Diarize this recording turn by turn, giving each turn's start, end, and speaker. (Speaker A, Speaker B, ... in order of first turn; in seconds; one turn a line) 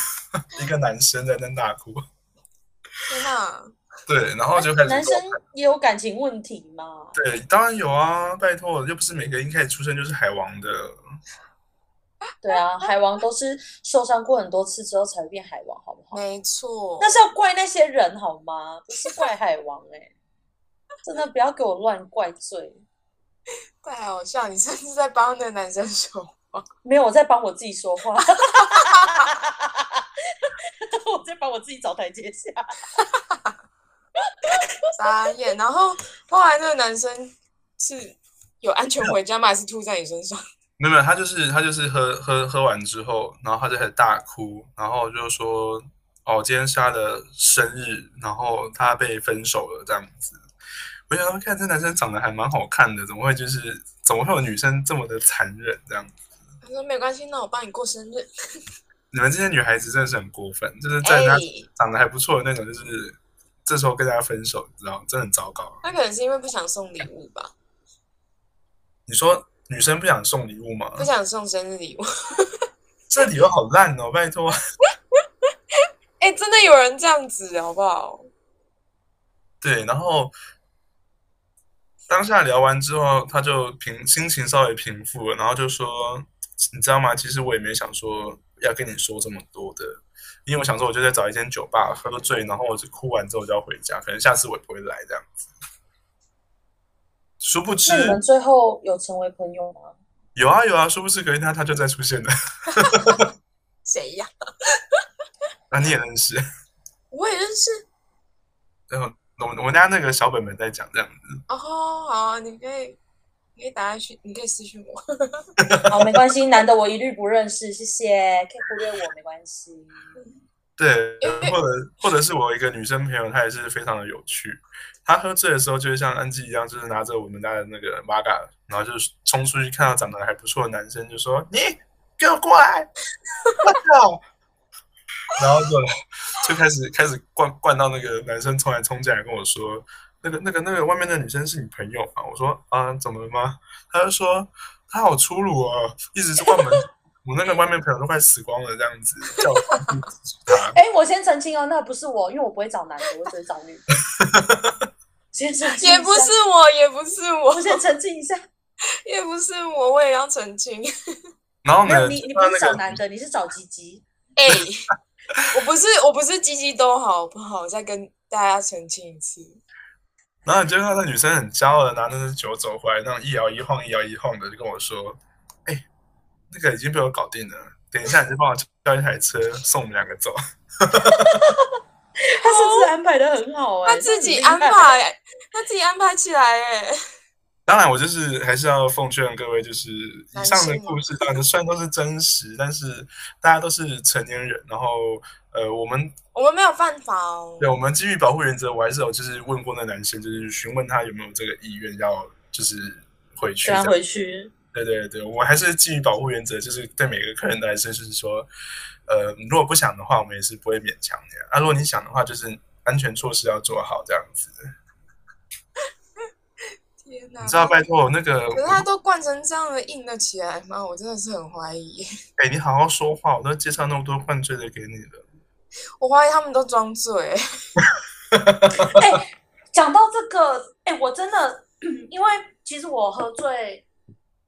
Speaker A: 0.5-2.0
Speaker B: 3.1-3.7
Speaker A: 4.1-5.3
Speaker C: 4.6-7.2
Speaker A: 7.1-11.0
Speaker C: 12.4-16.2
Speaker B: 16.1-17.1
Speaker C: 17.0-20.1
Speaker C: 21.0-22.8
Speaker B: 23.8-26.6
Speaker C: 26.8-32.8
Speaker B: 28.6-29.3
Speaker B: 33.0-33.5
Speaker B: 35.0-40.4
Speaker A: 40.8-50.4
Speaker A: 51.1-56.1
Speaker B: 56.6-58.3
Speaker A: 59.1-65.8
Speaker B: 61.0-61.7
Speaker B: 65.8-67.5
Speaker A: 69.1-71.1
Speaker B: 71.0-72.5
Speaker A: 73.1-74.5
Speaker B: 76.2-78.3
Speaker A: 79.6-80.3
Speaker A: 82.1-95.4
Speaker A: 97.4-98.2
Speaker C: 97.8-100.0
Speaker A: 100.3-103.2
Speaker B: 102.8-103.2
Speaker B: 103.8-104.3
Speaker A: 105.7-106.4
Speaker B: 107.1-107.8
Speaker A: 108.9-111.3
Speaker B: 111.5-113.0
Speaker B: 113.5-115.5
Speaker A: 115.6-116.1
Speaker C: 115.9-120.1
Speaker A: 120.8-132.9
Speaker B: 121.2-121.5
Speaker A: 133.6-134.2
Speaker A: 135.3-150.8
Speaker C: 150.7-153.9
Speaker A: 154.2-154.7
Speaker C: 155.3-156.3
Speaker B: 155.8-157.8
Speaker C: 157.6-158.4
Speaker B: 159.0-160.9
Speaker A: 161.6-163.0
Speaker C: 161.8-164.0
Speaker B: 164.3-164.9
Speaker B: 165.5-169.6
Speaker A: 170.4-175.8
Speaker A: 176.5-181.4
Speaker C: 181.1-181.7
Speaker C: 182.4-184.9
Speaker B: 182.4-182.9
Speaker B: 183.8-186.9
Speaker A: 187.7-196.2
Speaker B: 190.3-191.3
Speaker B: 196.3-197.7
Speaker A: 197.6-203.9
Speaker C: 203.6-204.5
Speaker A: 204.7-208.5
Speaker A: 209.1-214.5
Speaker B: 217.0-217.8
Speaker A: 217.4-218.8
Speaker B: 218.5-222.1
Speaker A: 222.4-225.2
Speaker B: 226.0-227.4
Speaker A: 228.3-229.0
Speaker C: 228.9-233.8